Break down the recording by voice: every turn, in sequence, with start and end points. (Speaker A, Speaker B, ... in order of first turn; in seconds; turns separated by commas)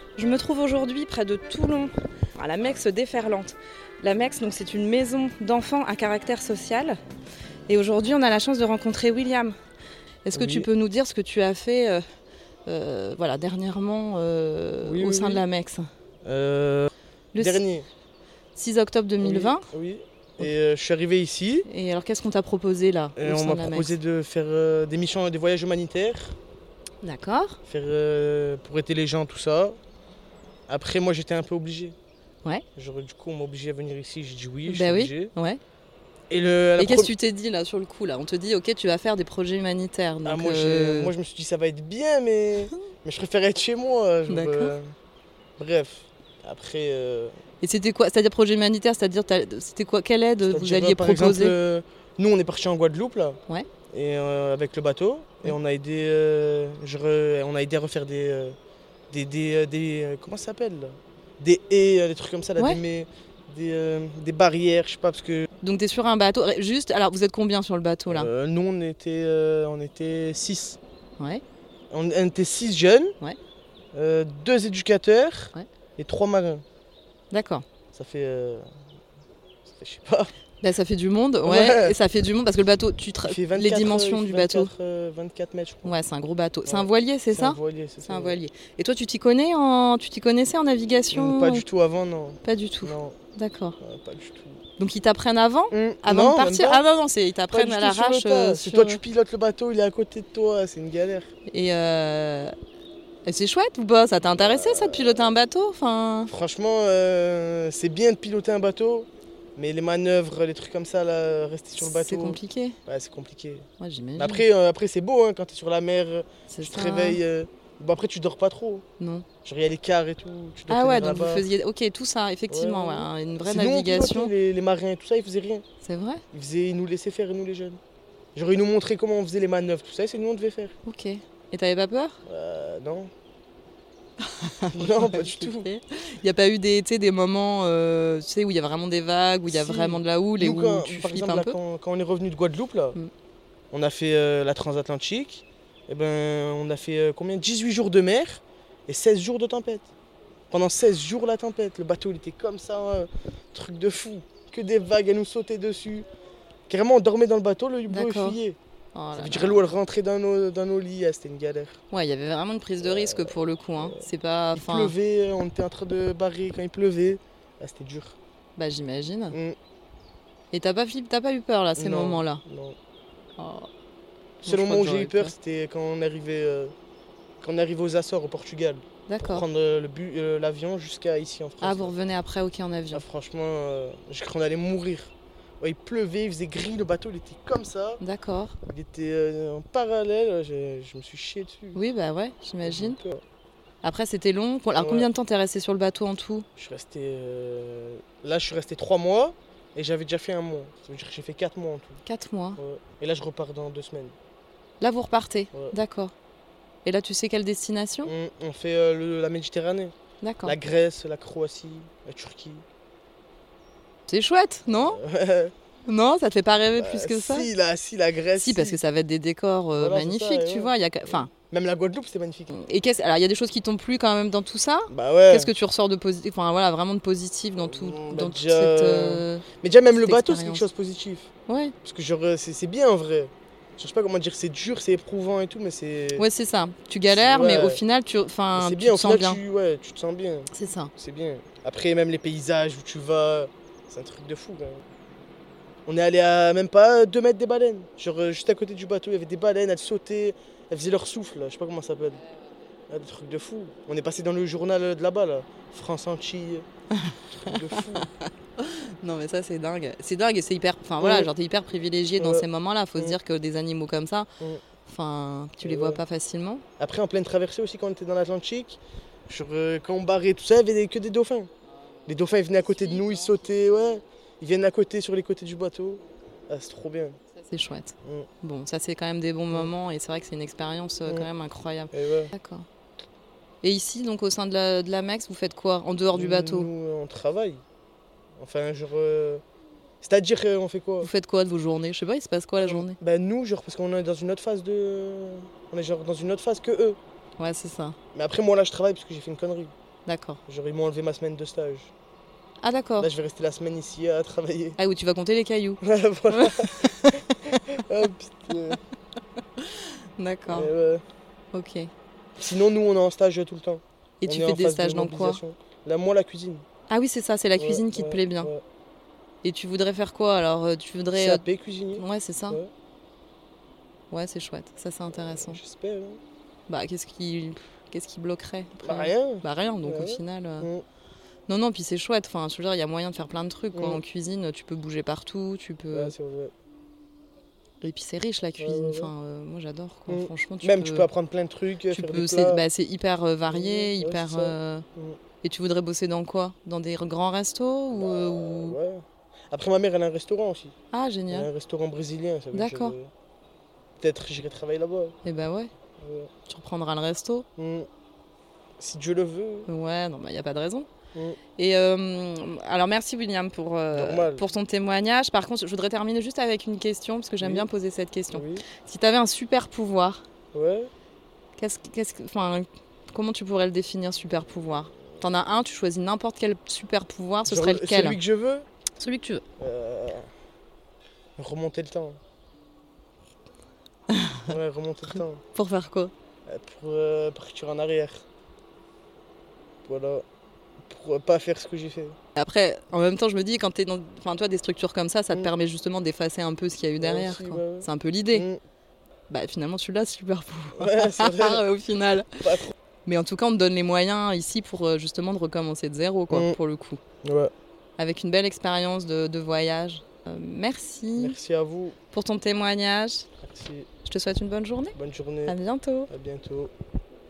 Speaker A: 0.2-7.0, Speaker A: 7.7-9.6, Speaker A: 10.2-12.1, Speaker B: 10.3-10.7, Speaker A: 12.7-15.9, Speaker B: 14.8-15.4, Speaker B: 16.2-17.9, Speaker A: 17.3-17.6, Speaker A: 18.6-19.7, Speaker B: 19.2-21.7, Speaker A: 21.6-23.9, Speaker B: 23.2-26.4, Speaker A: 27.0-27.6, Speaker B: 27.6-29.8, Speaker B: 30.7-31.9, Speaker B: 32.8-35.3, Speaker A: 34.7-35.6, Speaker B: 36.3-37.1, Speaker A: 36.8-41.1, Speaker B: 40.2-44.9, Speaker A: 44.3-44.7, Speaker B: 45.6-47.4, Speaker A: 47.6-51.5, Speaker B: 50.4-53.4, Speaker B: 53.9-58.6, Speaker B: 59.1-65.5, Speaker A: 65.6-68.3, Speaker B: 68.1-70.8, Speaker B: 71.9-73.1, Speaker B: 73.9-76.6, Speaker A: 77.3-77.6, Speaker B: 77.9-78.7, Speaker B: 79.7-80.3, Speaker A: 80.6-84.7, Speaker B: 81.4-82.0, Speaker B: 83.2-86.0, Speaker A: 85.8-91.6, Speaker B: 86.7-88.4, Speaker B: 91.1-93.2, Speaker A: 92.4-93.8, Speaker B: 93.8-94.6, Speaker A: 94.8-99.0, Speaker B: 95.7-96.8, Speaker B: 97.5-101.3, Speaker A: 101.5-102.5, Speaker A: 103.2-106.3, Speaker B: 104.3-105.3, Speaker B: 106.3-118.8, Speaker A: 111.8-112.8, Speaker A: 113.8-114.4, Speaker A: 116.5-117.2, Speaker A: 119.0-119.2, Speaker B: 119.4-121.5, Speaker A: 120.7-124.3, Speaker B: 122.5-125.7, Speaker A: 125.8-126.2, Speaker B: 126.3-127.8, Speaker B: 128.3-130.7, Speaker A: 130.8-132.2, Speaker B: 132.2-133.1, Speaker A: 134.2-141.6, Speaker B: 134.7-135.7, Speaker B: 139.5-142.9, Speaker B: 143.7-149.9, Speaker B: 150.5-156.1, Speaker B: 156.7-158.6, Speaker A: 157.9-158.4, Speaker A: 158.9-159.6, Speaker B: 159.1-161.8, Speaker A: 161.9-164.9, Speaker B: 162.8-164.0, Speaker B: 164.5-168.2, Speaker A: 168.6-169.4, Speaker B: 169.3-169.6, Speaker A: 170.5-172.4, Speaker B: 171.8-172.8, Speaker A: 173.4-173.7, Speaker A: 174.4-175.3, Speaker B: 174.4-176.7, Speaker B: 177.4-181.9, Speaker A: 179.1-179.4, Speaker A: 181.6-183.0, Speaker B: 182.9-188.0, Speaker A: 188.0-188.6, Speaker B: 188.6-191.8, Speaker A: 191.7-193.0, Speaker B: 192.6-193.2, Speaker A: 193.8-196.4, Speaker B: 194.8-195.1, Speaker B: 196.6-202.0, Speaker A: 202.1-202.6, Speaker B: 202.6-204.2, Speaker A: 204.8-206.1, Speaker A: 206.8-208.1, Speaker B: 208.0-212.6, Speaker A: 210.2-210.6, Speaker A: 214.1-215.0, Speaker B: 214.7-215.5, Speaker A: 215.9-217.5, Speaker B: 216.8-218.8, Speaker A: 218.4-221.3, Speaker B: 219.8-222.6, Speaker A: 222.5-230.7, Speaker B: 224.9-225.5, Speaker B: 227.6-231.3, Speaker A: 231.5-231.7, Speaker B: 231.8-236.2, Speaker A: 236.2-239.4, Speaker B: 237.1-237.8, Speaker B: 238.5-244.8, Speaker A: 240.5-240.9, Speaker B: 245.8-252.2, Speaker B: 252.9-256.6, Speaker A: 256.9-264.3, Speaker B: 257.3-258.1, Speaker B: 261.0-261.3, Speaker B: 262.2-263.2, Speaker A: 264.9-266.6, Speaker B: 265.6-266.0, Speaker B: 266.8-271.5, Speaker A: 272.0-273.4, Speaker B: 272.1-277.2, Speaker A: 277.4-282.6, Speaker B: 281.9-282.3, Speaker A: 283.6-286.7, Speaker B: 286.1-287.6, Speaker B: 288.4-289.4, Speaker B: 290.0-291.1, Speaker A: 291.0-293.0, Speaker B: 292.6-297.0, Speaker A: 297.4-298.0, Speaker B: 298.1-299.7, Speaker A: 300.1-300.4, Speaker B: 300.5-301.9, Speaker A: 302.6-303.1, Speaker B: 303.0-304.8, Speaker A: 304.8-307.8, Speaker B: 305.8-308.8, Speaker A: 309.6-310.7, Speaker B: 310.5-311.0, Speaker A: 311.5-311.9, Speaker B: 312.4-316.6, Speaker A: 314.2-315.4, Speaker A: 316.9-318.5, Speaker B: 317.6-318.6, Speaker A: 319.4-321.4, Speaker B: 321.1-322.7, Speaker A: 321.9-322.6, Speaker A: 324.1-325.6, Speaker B: 325.1-326.2, Speaker A: 326.7-330.7, Speaker B: 328.8-330.8, Speaker A: 331.5-336.1, Speaker B: 333.7-334.0, Speaker B: 335.9-336.5, Speaker A: 337.8-341.1, Speaker B: 338.6-339.1, Speaker B: 340.1-342.6, Speaker A: 341.9-344.9, Speaker B: 343.5-345.2, Speaker A: 345.4-348.8, Speaker B: 347.9-350.8, Speaker A: 350.9-351.5, Speaker B: 351.3-353.1, Speaker A: 352.5-352.9, Speaker B: 354.0-355.2, Speaker A: 355.2-355.7, Speaker B: 356.0-356.3, Speaker A: 356.5-357.4, Speaker B: 357.6-357.9, Speaker B: 358.8-359.7, Speaker A: 359.7-360.9, Speaker A: 361.6-370.2, Speaker B: 363.9-364.4, Speaker B: 367.4-367.7, Speaker B: 368.3-368.6, Speaker B: 370.5-370.9, Speaker A: 371.6-378.2, Speaker B: 377.4-378.7, Speaker A: 379.0-379.4, Speaker B: 379.6-380.3, Speaker B: 381.4-382.2, Speaker A: 384.1-384.5, Speaker B: 384.5-385.4, Speaker A: 385.5-386.1, Speaker B: 386.4-388.2, Speaker B: 389.8-390.2, Speaker B: 390.9-392.2, Speaker A: 392.4-398.4, Speaker B: 397.0-398.6, Speaker A: 399.3-402.4, Speaker B: 400.7-401.6, Speaker B: 402.4-402.7, Speaker A: 403.1-407.0, Speaker B: 406.3-406.6, Speaker B: 407.2-407.5, Speaker A: 408.0-411.4, Speaker B: 411.2-412.0, Speaker A: 412.1-413.2, Speaker B: 413.4-413.9, Speaker A: 414.1-414.9, Speaker B: 414.9-415.6, Speaker A: 415.5-416.1, Speaker B: 416.1-416.7